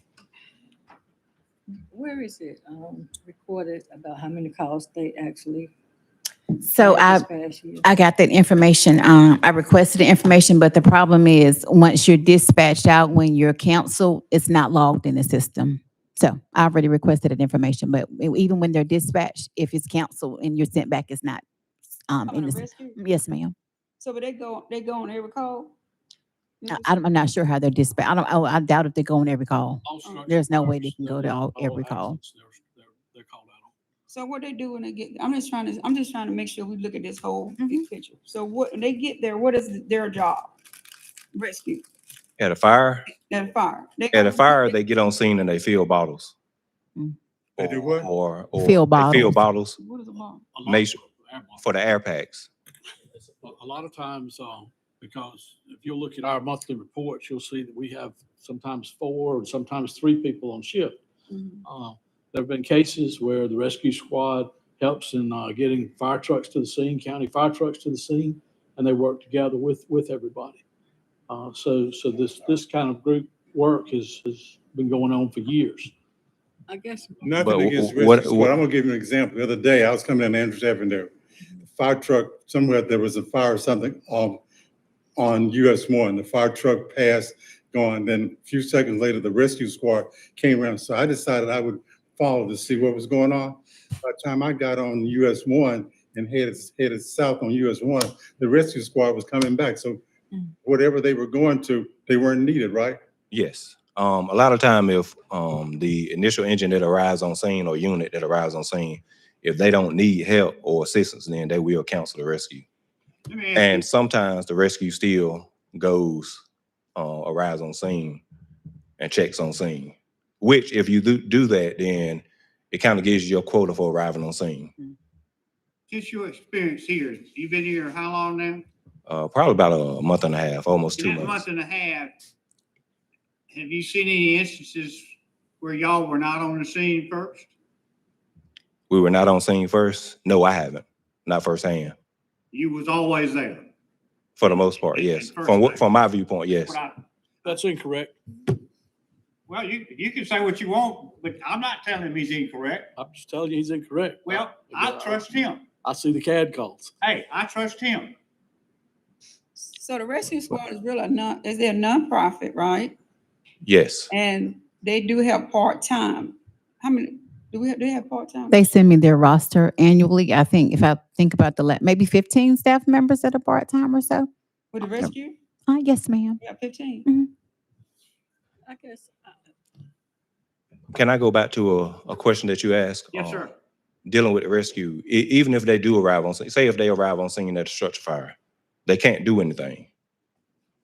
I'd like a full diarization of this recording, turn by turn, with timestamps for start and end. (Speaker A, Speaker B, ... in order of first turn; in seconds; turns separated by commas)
Speaker A: 1.9-5.7, Speaker B: 6.6-7.2, Speaker A: 6.8-7.9, Speaker B: 7.8-21.4, Speaker B: 22.1-23.5, Speaker C: 22.3-23.0, Speaker C: 24.0-25.7, Speaker C: 26.6-26.9, Speaker B: 26.7-32.2, Speaker D: 29.8-33.7, Speaker C: 30.0-30.4, Speaker C: 34.1-40.5, Speaker C: 41.3-41.8, Speaker E: 42.4-43.1, Speaker C: 43.2-44.8, Speaker E: 44.1-46.3, Speaker E: 47.6-49.8, Speaker F: 47.6-48.1, Speaker B: 48.5-49.4, Speaker C: 49.8-50.4, Speaker D: 50.5-51.6, Speaker E: 50.6-51.0, Speaker E: 51.6-52.5, Speaker D: 53.2-61.0, Speaker C: 61.3-61.6, Speaker D: 61.6-70.6, Speaker D: 71.3-75.9, Speaker A: 76.7-77.5, Speaker F: 77.2-81.1, Speaker E: 77.4-78.5, Speaker F: 81.7-84.4, Speaker F: 85.2-100.0, Speaker F: 100.6-103.0, Speaker E: 103.3-112.7, Speaker G: 113.3-113.8, Speaker E: 113.5-116.4, Speaker E: 117.0-118.2, Speaker E: 119.0-124.7, Speaker G: 125.9-128.7, Speaker E: 129.1-131.4, Speaker G: 131.0-132.1, Speaker G: 133.5-137.5, Speaker E: 138.9-141.9, Speaker G: 142.5-143.7, Speaker E: 144.4-146.8, Speaker G: 144.9-145.9, Speaker G: 146.6-147.0, Speaker D: 147.4-148.1, Speaker G: 149.5-152.9, Speaker D: 153.0-156.9, Speaker G: 154.2-155.6, Speaker G: 157.0-158.1, Speaker C: 159.6-162.9, Speaker E: 163.6-164.1, Speaker C: 164.1-168.6, Speaker B: 168.5-174.3, Speaker C: 174.7-175.3, Speaker B: 175.7-176.4, Speaker C: 176.4-177.1, Speaker A: 178.7-179.2, Speaker E: 180.9-183.5, Speaker G: 183.1-183.5, Speaker E: 184.1-188.3, Speaker E: 188.8-189.8